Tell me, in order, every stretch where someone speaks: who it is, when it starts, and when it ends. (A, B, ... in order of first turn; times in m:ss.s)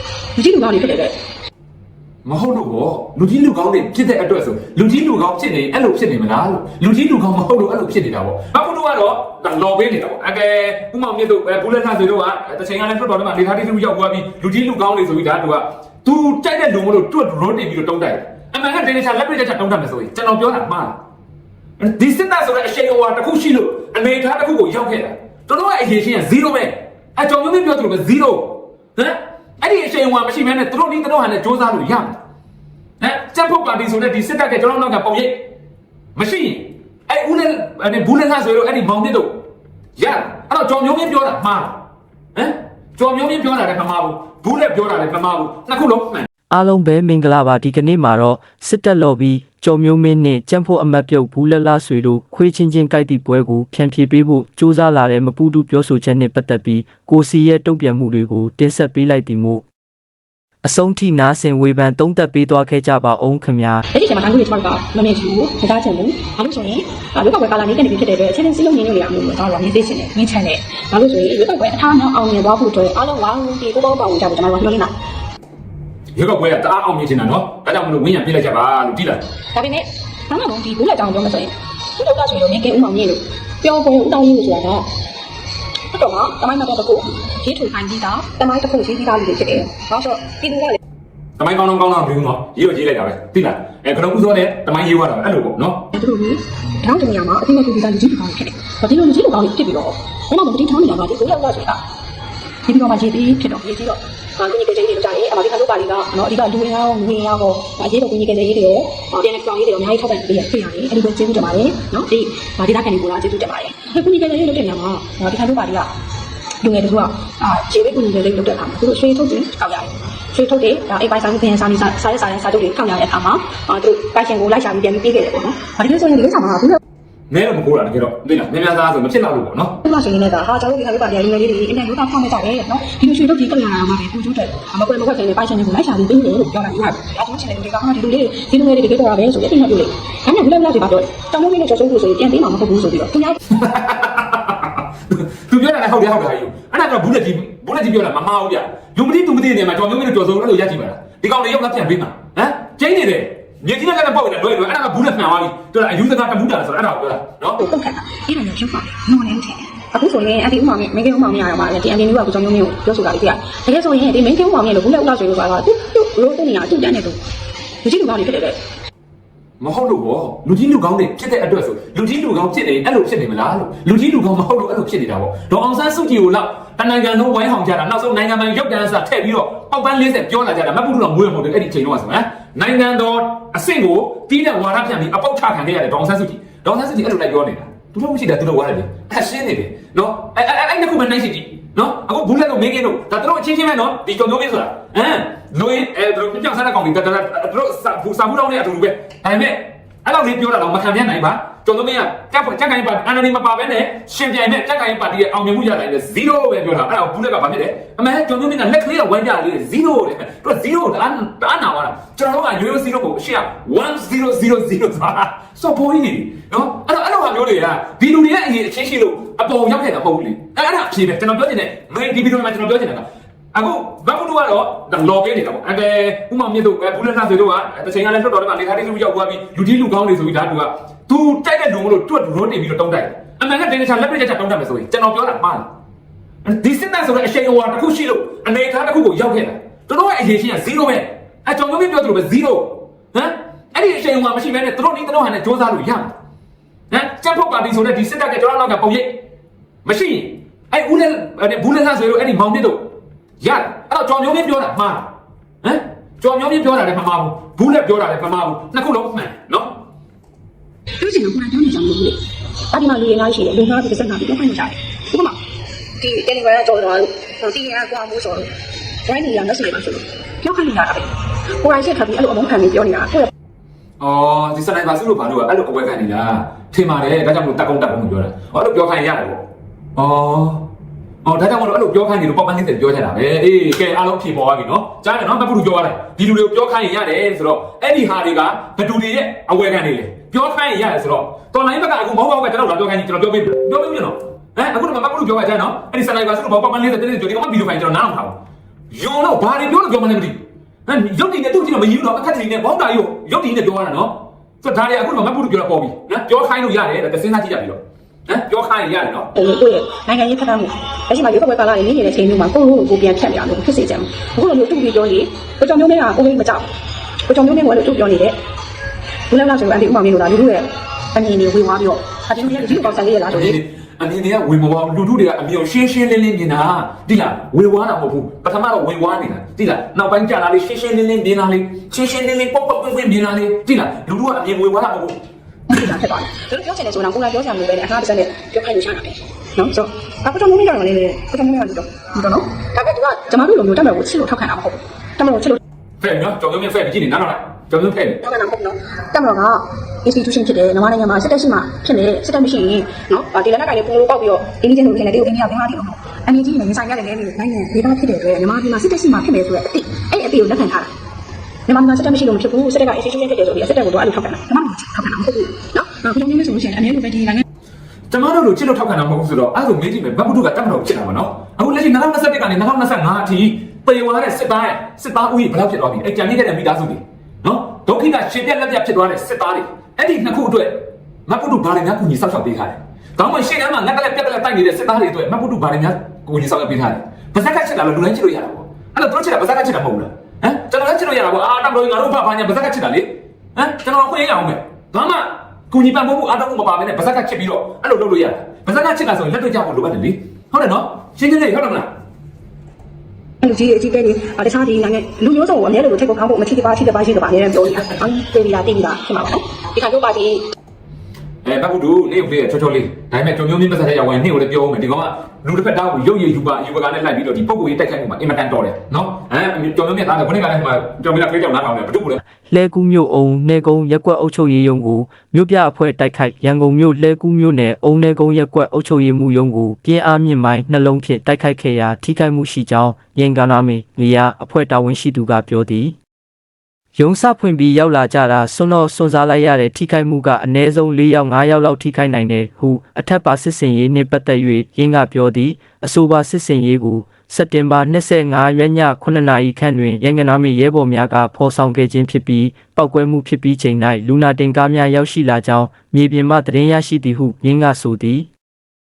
0:00.4-0:01.2 A
0:02.2-0:21.0 B
0:21.8-0:32.2 B
0:33.0-0:35.4 B
0:36.1-0:39.4 B
0:40.0-0:41.8 B
0:42.3-0:46.3 B
0:46.5-0:59.6 C
1:00.6-1:03.8 C
1:03.9-1:14.9 A
1:16.1-1:19.2 B
1:19.5-1:24.9 A
1:25.9-1:30.8 A
1:31.4-1:35.8 B
1:35.9-1:41.8 A
1:42.6-1:55.9 A
1:56.6-2:06.8 A
2:07.3-2:09.8 B
2:09.8-2:23.4 A
2:23.5-2:37.6 B
2:37.6-2:47.2 A
2:47.8-2:48.6 A
2:49.6-3:55.7 B
3:56.4-4:06.1 B
4:06.9-4:09.2 B
4:09.8-4:12.9 B
4:13.4-4:15.1 B
4:15.6-4:19.8 B
4:21.0-4:22.2 A
4:22.7-4:25.4 A
4:26.0-4:28.5 A
4:29.0-4:33.3 A
4:34.0-4:39.4 B
4:40.0-4:40.6 B
4:41.2-4:58.4 B
4:58.9-5:09.3 B
5:09.3-5:16.7 A
5:17.3-5:18.4 A
5:19.3-5:23.6 A
5:22.5-5:35.2 B
5:35.7-5:45.6 A
5:46.0-5:48.2 B
5:48.2-6:00.9 A
6:01.7-6:07.4 A
6:08.1-6:41.9 B
6:43.4-6:50.4 A
6:51.4-7:02.2 B
7:02.5-7:16.0 C
7:16.9-7:38.3 C